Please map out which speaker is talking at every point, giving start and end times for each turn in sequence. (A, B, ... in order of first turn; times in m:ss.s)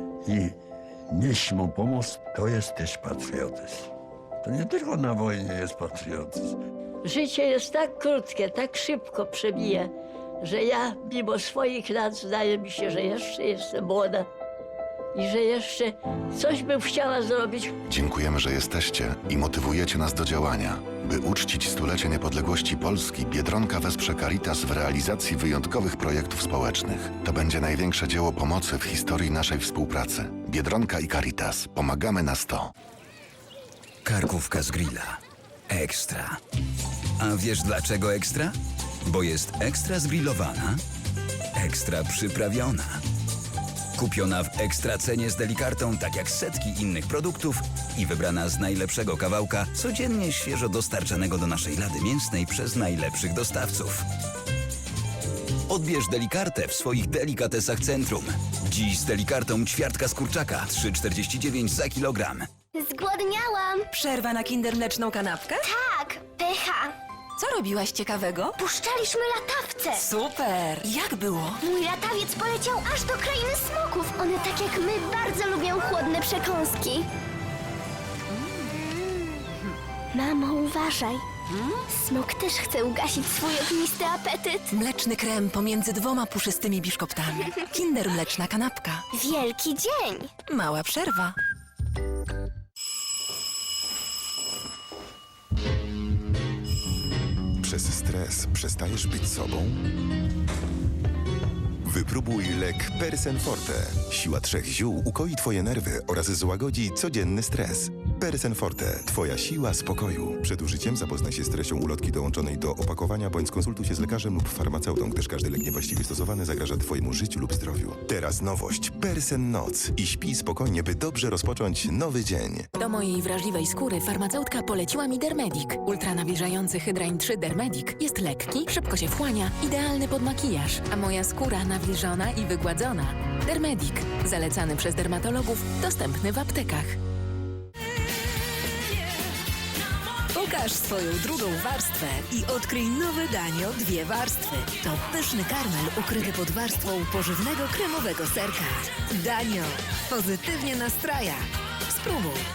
0:00.2-0:00.6 A
0:01.1-0:03.9 A
0:04.4-0:06.6 A
0:07.0-0:09.9 B
0:10.4-0:14.3 B
0:15.1-0:17.7 B
0:17.9-0:32.7 C
0:34.0-0:35.2 D
0:35.7-0:36.3 D
0:37.2-0:38.5 D
0:39.0-0:40.8 D
0:41.6-0:42.9 D
0:44.0-0:54.0 D
0:55.7-1:02.4 D
1:02.7-1:03.8 E
1:03.9-1:05.7 F
1:05.6-1:06.9 E
1:07.4-1:08.6 F
1:08.7-1:10.0 E
1:10.0-1:11.6 F
1:11.6-1:17.1 E
1:18.8-1:19.1 E
1:20.1-1:21.2 E
1:21.9-1:24.7 E
1:24.7-1:29.0 F
1:29.1-1:30.3 E
1:30.5-1:31.3 F
1:37.6-1:39.9 G
1:41.8-2:02.7 G
2:02.8-2:17.0 H
2:20.4-2:31.4 I
2:31.9-2:32.4 I